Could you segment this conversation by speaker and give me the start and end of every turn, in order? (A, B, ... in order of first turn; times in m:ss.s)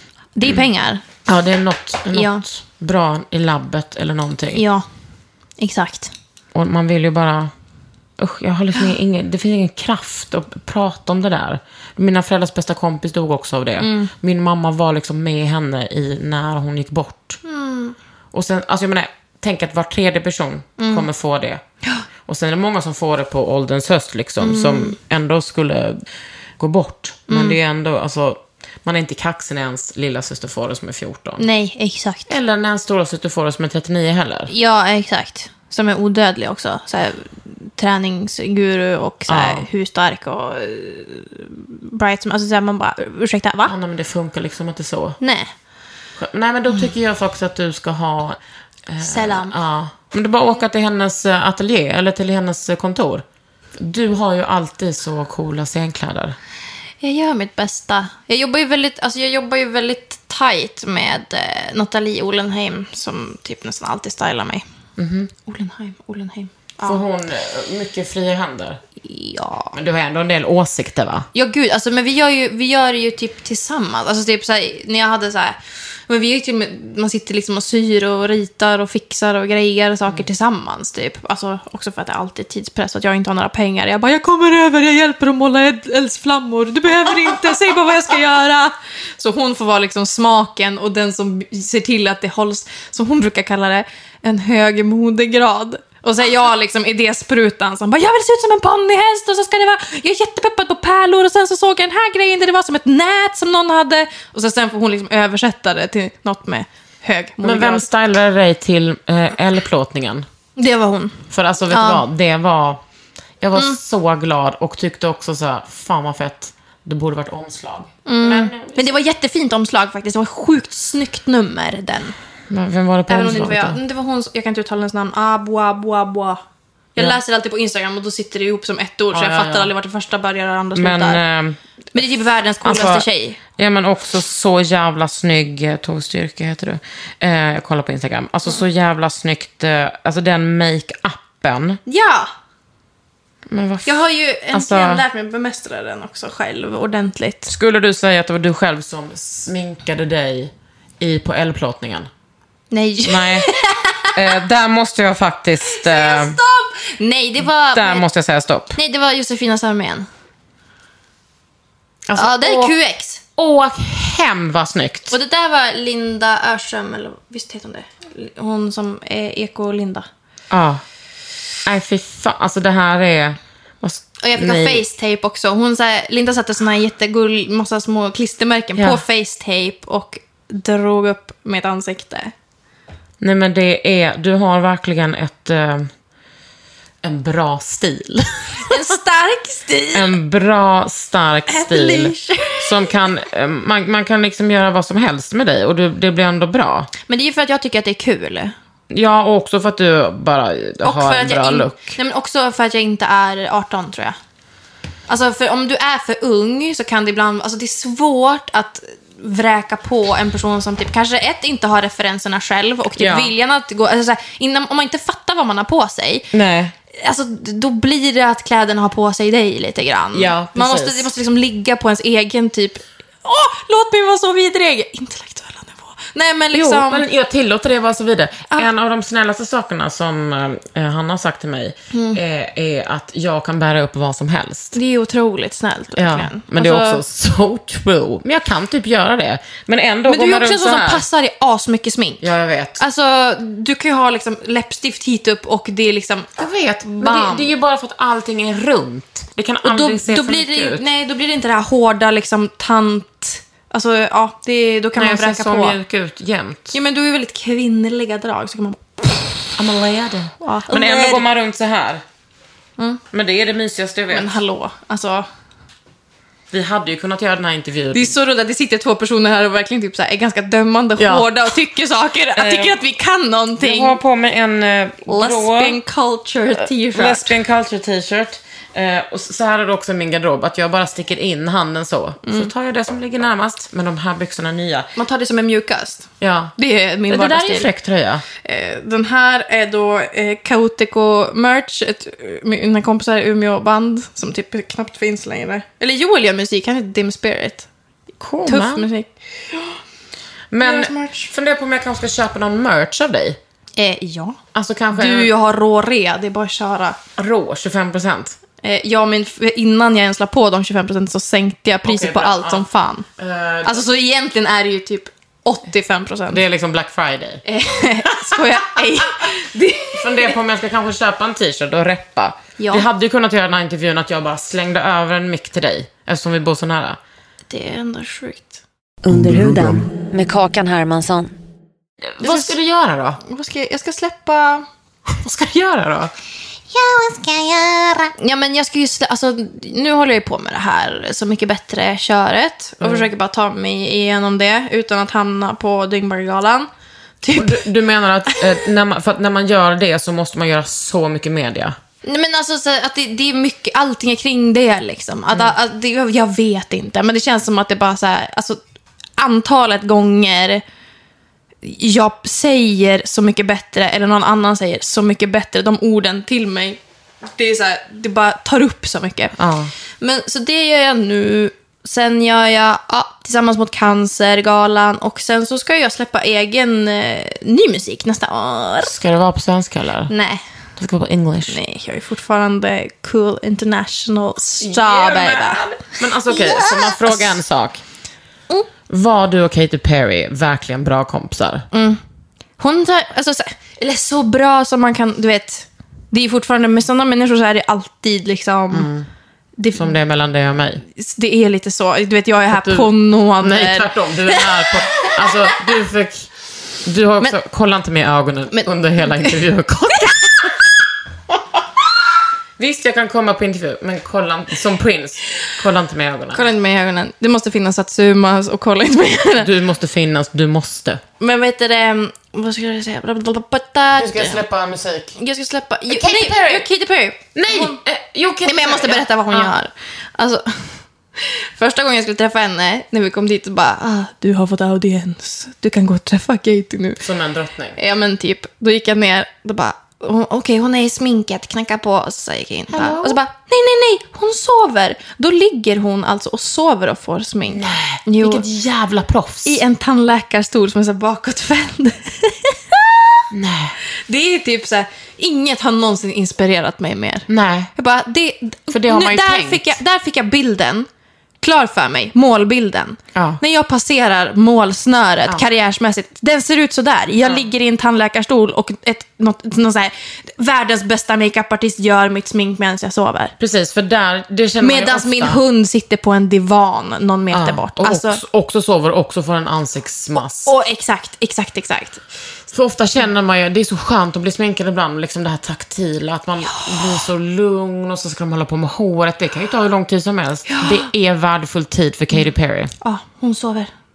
0:00.4-0:01.0 A
0:01.2-0:04.6 B
0:02.1-0:02.4 A
0:04.5-0:04.8 A
0:05.6-0:06.1 A
0:06.5-0:07.5 B
0:08.2-0:17.4 B
0:13.8-0:14.1 A
0:17.4-0:18.0 A
0:18.3-0:21.6 B
0:20.8-0:21.1 A
0:22.3-0:26.0 B
0:24.4-0:24.9 A
0:26.6-0:31.4 B
0:27.3-0:27.6 A
0:31.4-0:32.3 A
0:32.3-0:34.5 B
0:34.5-0:43.7 A
0:39.3-0:39.6 B
0:43.6-0:45.2 B
0:45.2-0:45.5 A
0:46.2-0:53.2 B
0:49.0-0:49.5 A
0:53.8-0:56.4 B
0:57.0-1:04.6 A
1:05.0-1:05.3 B
1:05.5-1:07.0 A
1:06.8-1:08.8 B
1:09.0-1:09.7 A
1:09.7-1:11.3 B
1:11.3-1:47.9 A
1:47.4-1:50.2 B
1:50.6-1:51.2 A
1:51.3-1:52.8 B
1:51.7-1:52.0 A
1:53.4-1:59.0 B
1:58.0-2:02.1 A
2:02.5-2:03.8 B
2:03.1-2:06.4 A
2:07.0-2:11.2 A
2:09.1-2:09.7 B
2:10.7-2:11.6 B
2:11.9-2:13.4 A
2:12.6-2:13.0 B
2:13.6-2:21.8 B
2:21.8-2:22.3 A
2:23.5-2:25.0 B
2:23.8-2:27.5 A
2:27.5-2:32.1 B
2:32.7-2:34.1 A
2:33.0-2:33.5 B
2:34.1-2:36.4 B
2:35.7-2:38.0 A
2:37.7-2:38.8 B
2:38.7-2:40.1 A
2:42.1-2:42.7 B
2:42.2-2:43.2 A
2:43.4-2:45.1 B
2:45.1-2:50.1 A
2:50.5-2:50.8 B
2:51.6-2:54.8 B
2:54.2-3:02.3 A
2:58.8-2:59.0 B
3:03.2-3:05.9 B
3:07.0-3:08.8 B
3:08.7-3:10.1 A
3:09.9-3:16.9 B
3:11.5-3:12.8 A
3:17.1-3:18.5 A
3:18.9-3:21.9 B
3:20.8-3:24.2 A
3:25.1-3:36.3 A
3:33.0-3:33.3 B
3:36.3-3:36.7 B
3:36.9-3:47.0 A
3:40.1-3:41.1 B
3:46.5-3:54.8 B
3:51.9-3:52.2 A
3:54.7-3:57.0 A
3:56.0-4:01.0 B
4:00.1-4:02.2 A
4:02.2-4:02.8 B
4:02.8-4:07.5 A
4:06.4-4:10.9 B
4:09.6-4:15.8 A
4:15.0-4:16.8 B
4:16.7-4:19.4 A
4:19.6-4:22.0 B
4:20.4-4:21.2 A
4:23.1-4:24.4 B
4:24.1-4:25.3 A
4:26.5-4:28.1 B
4:27.9-4:34.0 A
4:31.0-4:31.3 B
4:32.3-4:32.8 B
4:33.6-4:35.8 B
4:35.1-4:37.3 A
4:36.5-4:44.9 B
4:45.0-4:47.7 A
4:46.2-4:46.5 B
4:47.1-4:48.2 B
4:48.4-4:57.7 A
4:58.2-4:59.8 A
4:58.4-4:58.8 B
5:00.5-5:03.4 B
5:00.6-5:01.3 A
5:03.8-5:04.4 A
5:04.5-5:05.3 B
5:04.9-5:07.0 A
5:07.2-5:08.4 B
5:08.6-5:13.0 A
5:11.8-5:12.6 B
5:13.2-5:13.8 B
5:13.6-5:16.4 A
5:16.3-5:17.4 B
5:17.4-5:20.4 A
5:20.0-5:27.0 B
5:22.6-5:22.8 A
5:27.5-5:28.6 A
5:29.0-5:31.3 C
5:32.1-5:33.2 B
5:32.2-5:32.6 A
5:33.2-5:34.6 A
5:35.2-5:36.1 B
5:38.2-5:46.7 A
5:42.8-5:43.1 B
5:47.2-5:47.6 A
5:47.3-5:51.8 B
5:52.0-5:58.6 A
5:59.2-6:00.6 A
6:01.6-6:06.8 A
6:07.3-6:09.3 A
6:09.4-6:09.7 B
6:10.0-6:18.9 A
6:18.8-6:20.1 B
6:20.1-6:20.4 A
6:20.8-6:21.6 B
6:21.5-6:25.6 A
6:24.6-6:27.8 B
6:26.3-6:27.4 A
6:28.9-6:31.6 B
6:31.7-6:32.0 A
6:32.6-6:38.9 A
6:38.7-6:39.1 B
6:39.6-6:39.9 A
6:39.7-6:40.8 B
6:40.9-6:45.3 A
6:42.5-6:46.3 B
6:46.8-6:50.5 B
6:48.5-6:49.3 A
6:52.6-6:56.4 B
6:56.3-6:59.5 A
6:59.4-7:01.0 B
7:01.2-7:04.4 A
7:04.0-7:05.2 B
7:05.2-7:07.8 A
7:05.9-7:06.6 B
7:07.3-7:09.5 B
7:08.4-7:17.0 A
7:17.0-7:17.8 B
7:17.8-7:28.4 A
7:22.7-7:23.2 B
7:27.5-7:29.6 B
7:29.4-7:33.2 A
7:33.3-7:33.8 B
7:34.1-7:40.9 A
7:37.3-7:37.7 B
7:38.7-7:39.8 B
7:41.4-7:53.3 A
7:43.1-7:43.4 B
7:47.2-7:47.5 B
7:53.4-7:55.4 B
7:54.6-7:58.2 A
7:57.3-8:00.5 B
8:00.4-8:02.0 A
8:02.5-8:12.7 B
8:06.4-8:07.0 A
8:10.5-8:10.9 A
8:12.8-8:13.7 A